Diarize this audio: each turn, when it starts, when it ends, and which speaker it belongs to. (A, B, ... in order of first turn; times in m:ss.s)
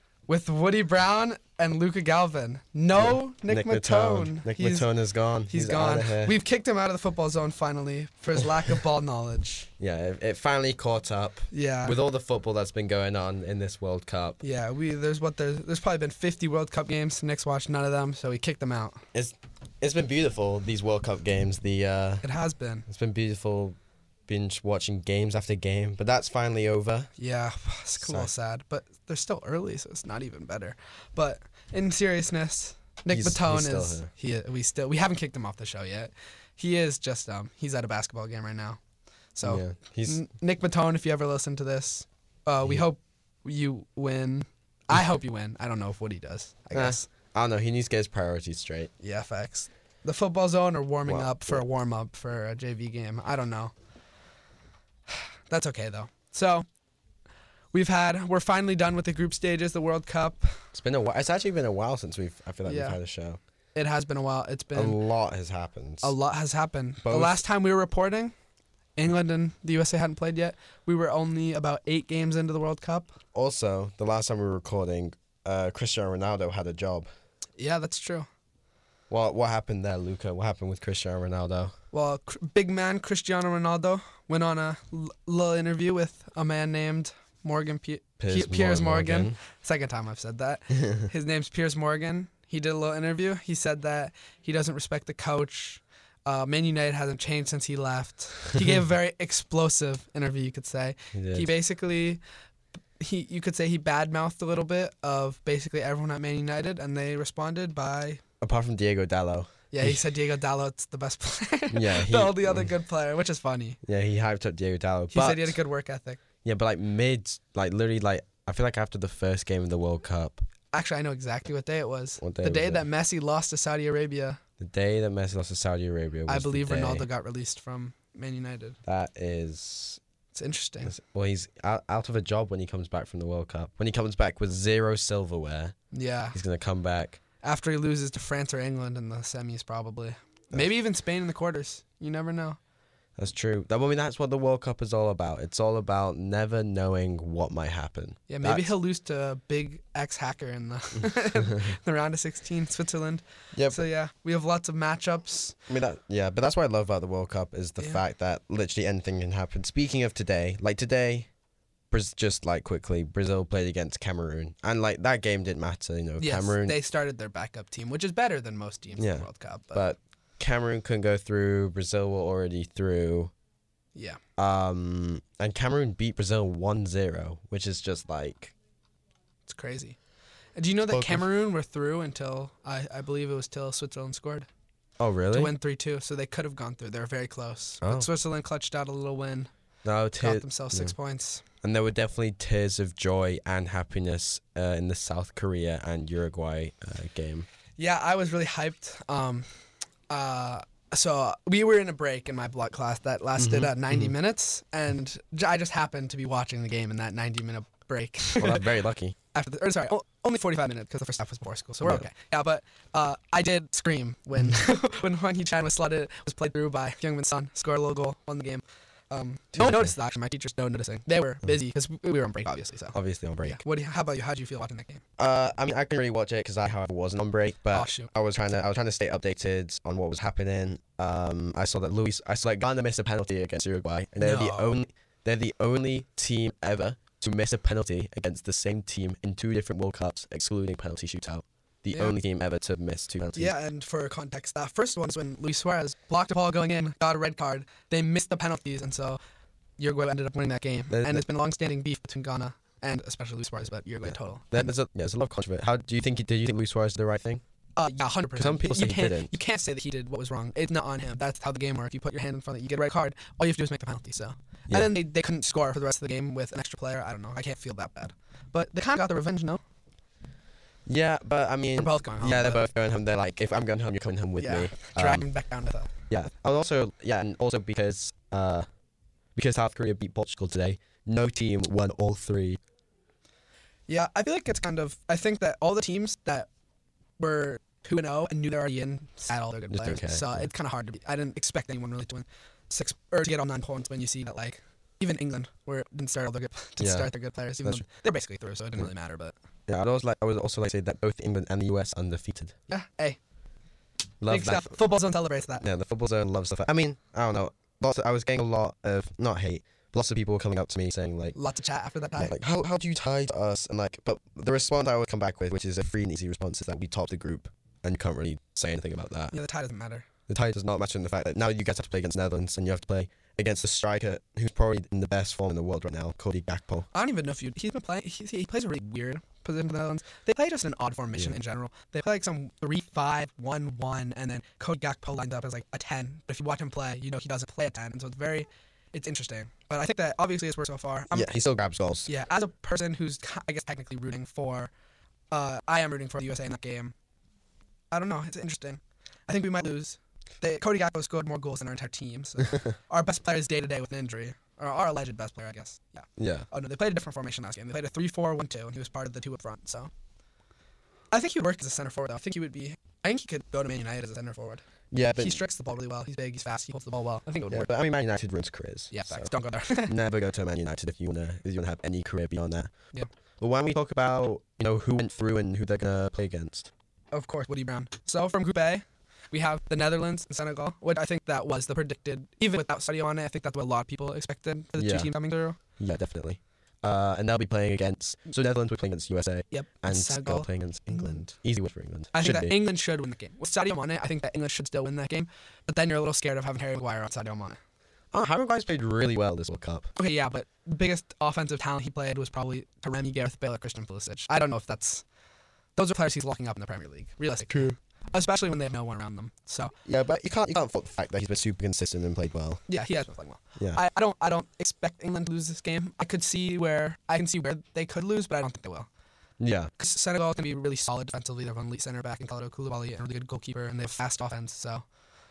0:00.3-0:04.9 A
0:03.0-0:06.3 B
0:05.5-0:09.7 A
0:09.8-0:14.4 B
0:11.5-0:12.0 A
0:14.4-0:19.0 A
0:19.1-0:22.2 B
0:22.2-0:22.8 A
0:22.9-0:27.1 B
0:27.2-0:38.8 A
0:28.0-0:28.3 B
0:33.1-0:34.1 B
0:39.3-0:47.1 A
0:39.4-0:40.2 B
0:46.7-0:48.9 B
0:49.0-0:53.7 A
0:51.0-0:51.6 B
0:55.1-0:56.7 A
0:57.7-1:00.6 A
1:00.7-1:03.4 B
1:02.6-1:03.0 A
1:03.7-1:05.0 A
1:04.7-1:06.2 B
1:06.0-1:08.3 A
1:07.0-1:07.4 B
1:09.0-1:13.1 A
1:13.3-1:17.1 B
1:17.6-1:18.3 A
1:19.1-1:21.7 B
1:21.9-1:42.2 A
1:28.2-1:29.4 B
1:41.1-1:41.6 B
1:43.0-1:48.2 A
1:48.4-1:50.0 B
1:49.7-1:53.8 A
1:51.7-1:52.7 B
1:53.8-1:55.6 B
1:55.1-1:56.2 A
1:56.4-2:00.4 B
2:00.7-2:04.4 A
2:02.2-2:02.8 B
2:04.6-2:07.1 B
2:06.3-2:08.8 A
2:08.8-2:10.0 B
2:10.3-2:10.9 A
2:10.8-2:15.7 B
2:15.9-2:16.4 A
2:16.3-2:17.2 B
2:17.4-2:22.6 A
2:23.2-2:28.7 B
2:28.3-2:35.6 A
2:33.5-2:33.8 B
2:35.7-2:41.3 B
2:41.9-2:46.8 B
2:46.2-2:49.9 A
2:49.0-2:53.3 B
2:53.9-2:54.2 A
2:54.4-2:58.5 B
2:59.4-3:00.0 A
3:00.6-3:04.5 A
3:00.9-3:01.3 B
3:05.0-3:05.5 B
3:05.3-3:09.5 A
3:07.8-3:08.1 B
3:09.8-3:10.9 B
3:10.2-3:11.4 A
3:11.6-3:17.5 B
3:17.8-3:19.5 A
3:20.1-3:28.7 A
3:23.4-3:24.1 B
3:28.4-3:29.2 B
3:29.3-3:45.0 A
3:31.8-3:32.1 B
3:39.5-3:39.9 B
3:42.9-3:43.6 B
3:45.2-4:03.5 B
3:47.7-3:48.1 A
3:54.2-3:54.8 A
4:03.4-4:09.2 A
4:09.8-4:14.7 A
4:10.9-4:11.2 B
4:14.0-4:17.4 B
4:17.8-4:29.6 A
4:18.3-4:19.3 B
4:30.8-4:35.3 B
4:31.8-4:32.7 A
4:34.4-4:35.9 A
4:36.1-4:38.7 B
4:39.3-4:42.6 B
4:43.9-4:46.5 A
4:47.2-4:59.3 A
4:49.7-4:50.4 B
4:56.8-4:57.1 B
4:59.7-5:02.6 B
5:02.7-5:03.2 A
5:04.2-5:04.8 B
5:04.3-5:05.6 A
5:05.6-5:11.4 B
5:11.3-5:12.4 A
5:12.2-5:19.4 B
5:19.3-5:20.0 A
5:20.3-5:26.9 B
5:26.9-5:41.3 A
5:41.1-5:42.1 B
5:42.0-5:44.7 A
5:45.3-5:46.9 A
5:47.9-5:59.9 A
5:56.2-5:56.5 B
6:01.1-6:04.6 A
6:04.9-6:05.4 B
6:05.1-6:07.7 A
6:07.5-6:09.3 B
6:08.9-6:10.0 A
6:09.8-6:12.7 B
6:13.4-6:16.7 B
6:17.1-6:25.6 A
6:24.8-6:25.1 B
6:25.8-6:32.6 B
6:29.5-6:31.2 A
6:32.1-6:37.6 A
6:38.1-6:39.9 B
6:40.0-6:45.0 A
6:45.7-6:49.7 A
6:47.5-6:47.8 B
6:49.8-6:52.7 B
6:52.7-6:58.9 A
6:59.4-6:59.7 B
6:59.8-7:04.8 A